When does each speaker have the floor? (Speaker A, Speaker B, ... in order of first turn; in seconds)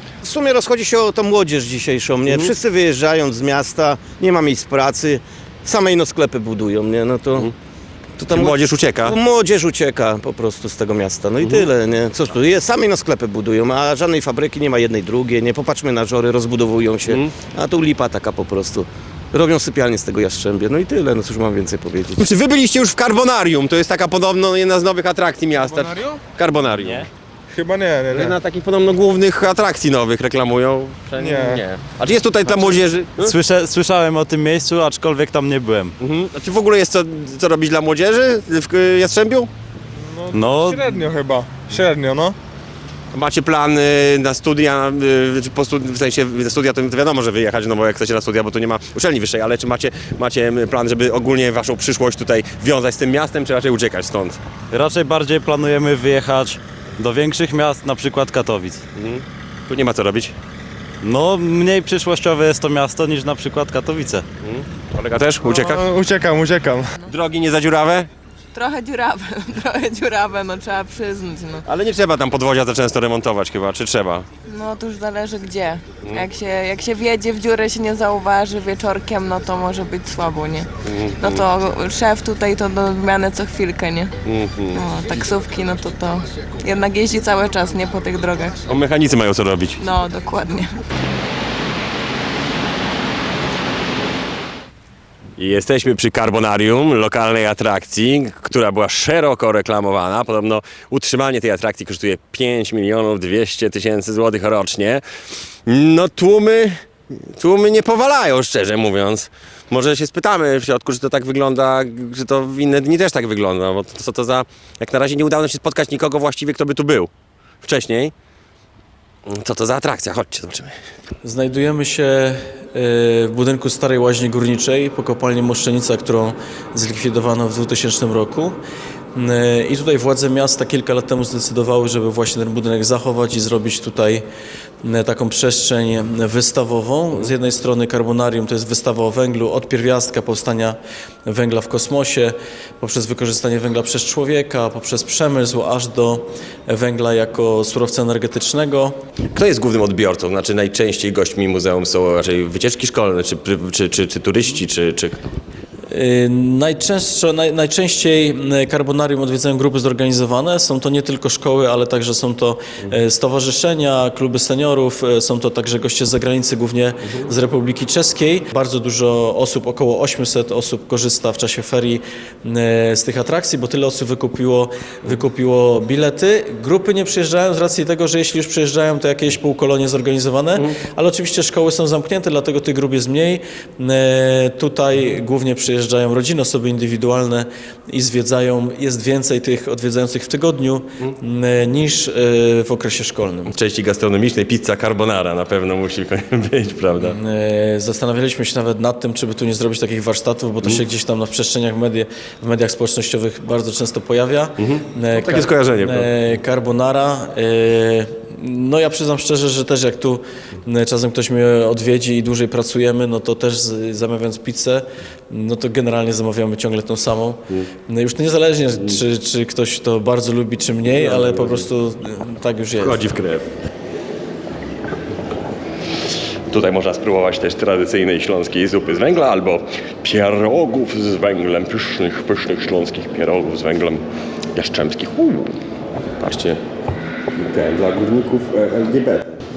Speaker A: 0.2-7.5, 8.2-22.2
Speaker B: 2.3-2.5, 8.3-9.2, 11.4-11.7, 17.1-17.3, 22.2-27.1, 28.1-33.3, 36.0-39.5, 43.1-54.4, 59.0-60.4, 64.4-65.9, 67.1-68.1, 71.7-74.3, 80.8-81.5, 84.2-84.8, 88.6-89.8, 95.4-105.0, 105.7-117.1, 117.6-118.1, 119.3-120.8, 149.3-155.2, 193.5-197.2, 204.6-206.1, 220.9-221.7, 222.8-223.5, 226.5-235.6, 236.2-236.6, 237.3-239.3
Speaker C: 28.0-28.3, 31.3-31.6, 40.7-41.2, 65.9-66.6
Speaker D: 33.2-36.0, 40.3-40.9, 54.7-58.8, 61.0-64.2
Speaker E: 68.5-71.7, 74.5-80.7, 81.2-84.1, 84.7-88.6, 89.8-90.7
Speaker F: 121.2-128.6, 129.2-134.2, 134.8-149.0, 155.9-193.5, 197.0-223.1